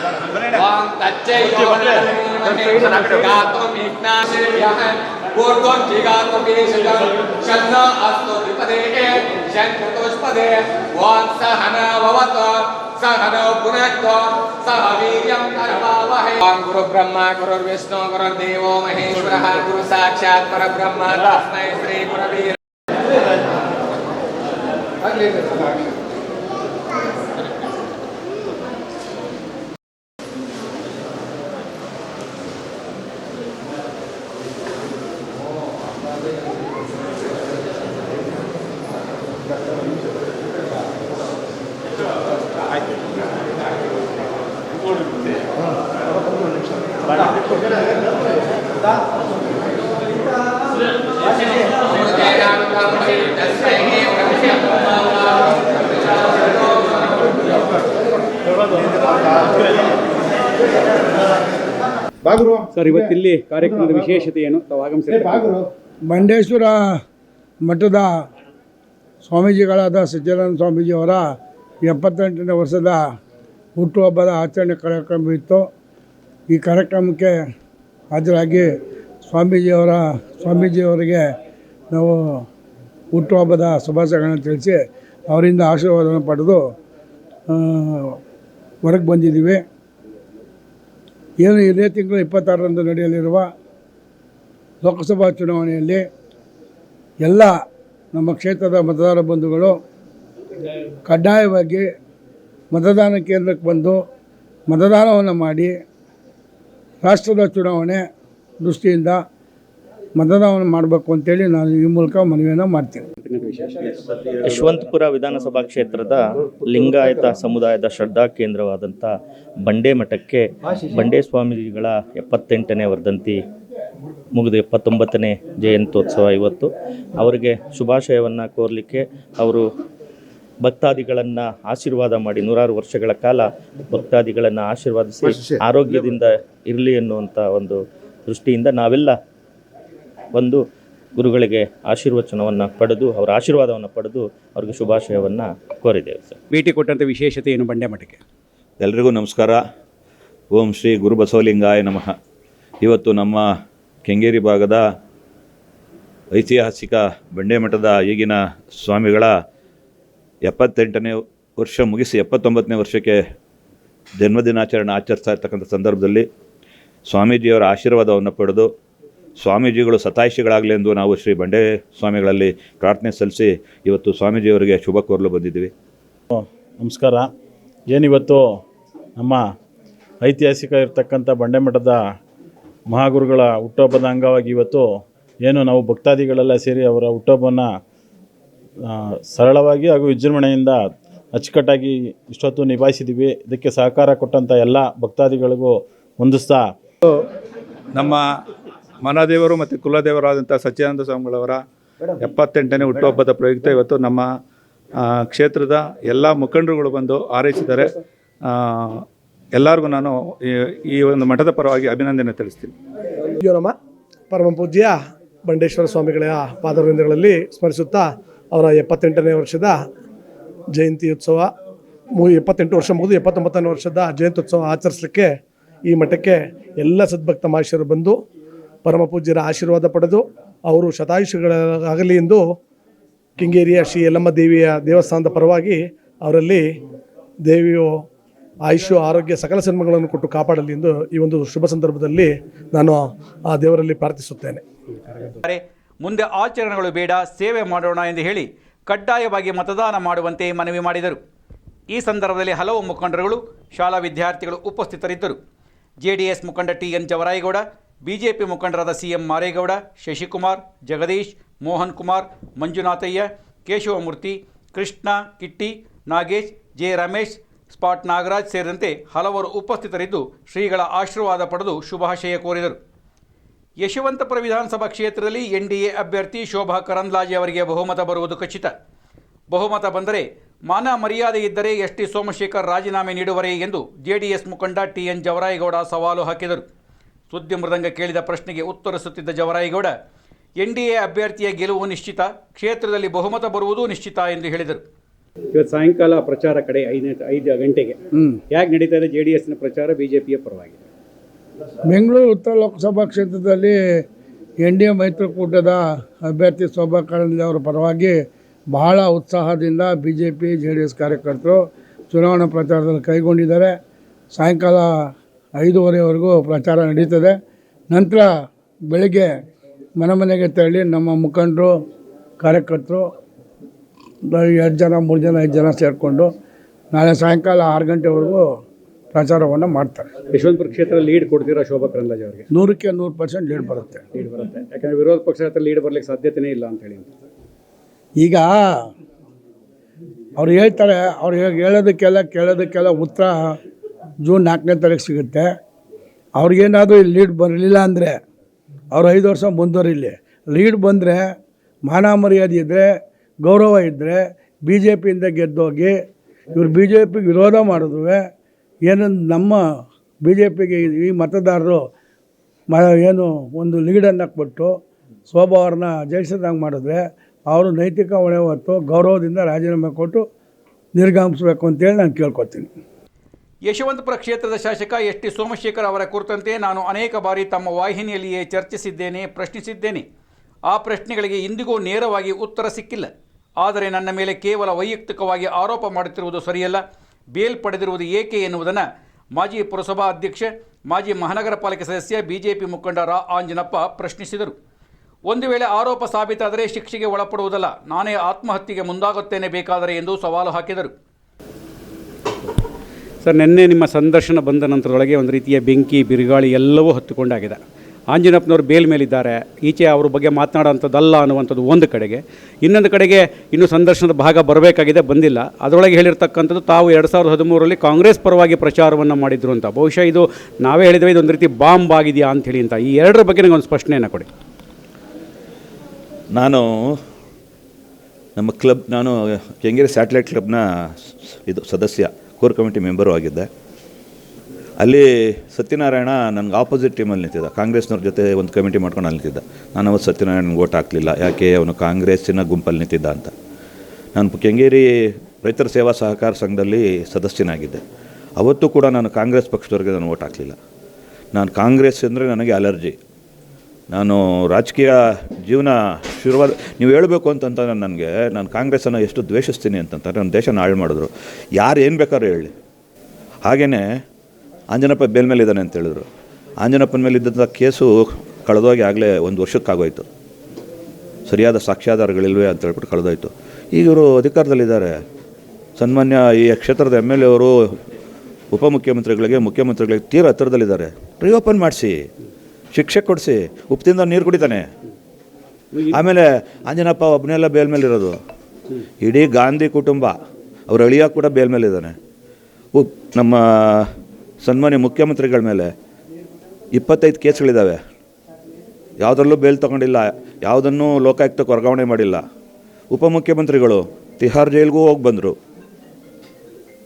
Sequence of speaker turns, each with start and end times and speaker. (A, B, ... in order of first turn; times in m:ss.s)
0:00.5-0:22.6 A
0:51.7-0:57.7 A
1:02.7-1:05.6 B
1:06.0-1:07.0 C
1:07.6-1:08.1 C
1:09.2-1:11.3 C
1:11.8-1:13.0 C
1:13.8-1:15.7 C
1:16.5-1:17.4 C
1:18.1-1:18.7 C
1:19.2-1:21.3 C
1:21.9-1:22.5 C
1:23.1-1:26.7 C
1:27.5-1:28.2 C
1:28.8-1:29.6 C
1:31.4-1:33.5 C
1:34.8-1:36.0 C
1:37.2-1:37.6 C
1:38.1-1:39.8 C
1:41.1-1:41.9 C
1:42.7-1:44.0 C
1:44.7-1:45.8 C
1:47.0-1:48.0 C
1:48.6-1:49.2 C
1:50.2-1:53.0 C
1:53.2-1:54.0 B
1:54.4-2:03.4 D
2:04.3-2:09.7 D
2:10.6-2:19.2 D
2:20.3-2:20.6 D
2:21.2-2:26.4 D
2:26.5-2:28.2 B
2:28.8-2:29.6 E
2:30.5-2:32.1 E
2:32.8-2:34.8 E
2:36.3-2:39.4 E
2:40.4-2:43.2 E
2:44.2-2:46.3 E
2:47.1-2:48.7 E
2:49.4-2:55.7 E
2:56.3-2:57.3 F
2:57.9-2:58.6 F
2:59.2-2:59.4 F
3:00.2-3:02.0 F
3:02.9-3:07.8 F
3:08.8-3:16.7 F
3:18.0-3:18.2 G
3:19.0-3:21.6 G
3:22.2-3:24.3 G
3:25.0-3:27.9 G
3:28.5-3:29.0 G
3:29.5-3:32.7 G
3:33.4-3:33.7 H
3:34.3-3:39.8 H
3:40.7-3:41.5 H
3:42.2-3:48.2 H
3:48.8-3:52.5 H
3:53.4-3:56.7 H
3:57.4-3:58.0 H
3:58.6-4:04.6 H
4:05.4-4:11.2 I
4:11.9-4:15.4 I
4:16.0-4:32.8 I
4:33.8-4:38.7 I
4:39.5-4:46.6 I
4:47.3-4:49.9 I
4:50.6-4:54.8 I
4:55.5-4:58.0 B
4:58.5-5:00.8 B
5:01.9-5:04.0 C
5:04.6-5:13.7 C
5:14.3-5:17.4 C
5:17.9-5:18.3 C
5:18.9-5:19.3 C
5:20.0-5:21.7 C
5:22.4-5:23.1 C
5:24.2-5:26.3 C
5:26.9-5:28.6 C
5:29.1-5:30.1 C
5:30.3-5:32.5 B
5:32.5-5:34.0 C
5:34.1-5:37.1 B
5:38.2-5:38.9 C
5:40.4-5:43.6 C
5:44.2-5:45.5 C
5:46.4-5:48.2 C
5:48.9-5:51.3 C
5:51.9-5:52.9 C
5:53.4-5:56.0 C
5:56.5-5:58.2 C
5:58.8-5:59.6 C
6:00.2-6:01.8 C
6:02.7-6:10.2 C
6:11.0-6:12.7 C
6:13.6-6:20.0 I
6:20.7-6:26.8 I
6:27.3-6:28.8 I
6:29.4-6:34.5 I
6:35.3-6:40.9 I
6:43.2-7:04.3 B
7:06.3-7:07.0 E
7:08.4-7:13.5 E
7:14.8-7:23.3 E
7:24.1-7:27.8 E
7:28.4-7:30.6 E
7:31.3-7:33.0 E
7:33.9-7:42.5 E
7:43.4-7:44.0 E
7:44.7-7:46.0 E
7:46.6-7:50.0 E
7:51.3-7:55.0 E
7:55.8-7:57.8 E
7:58.5-8:02.1 E
8:02.7-8:04.7 E
8:05.9-8:08.2 E
8:09.0-8:10.2 E
8:10.7-8:12.0 E
8:12.7-8:15.7 E
8:16.7-8:17.8 E
8:19.0-8:22.2 E
8:22.9-8:25.4 E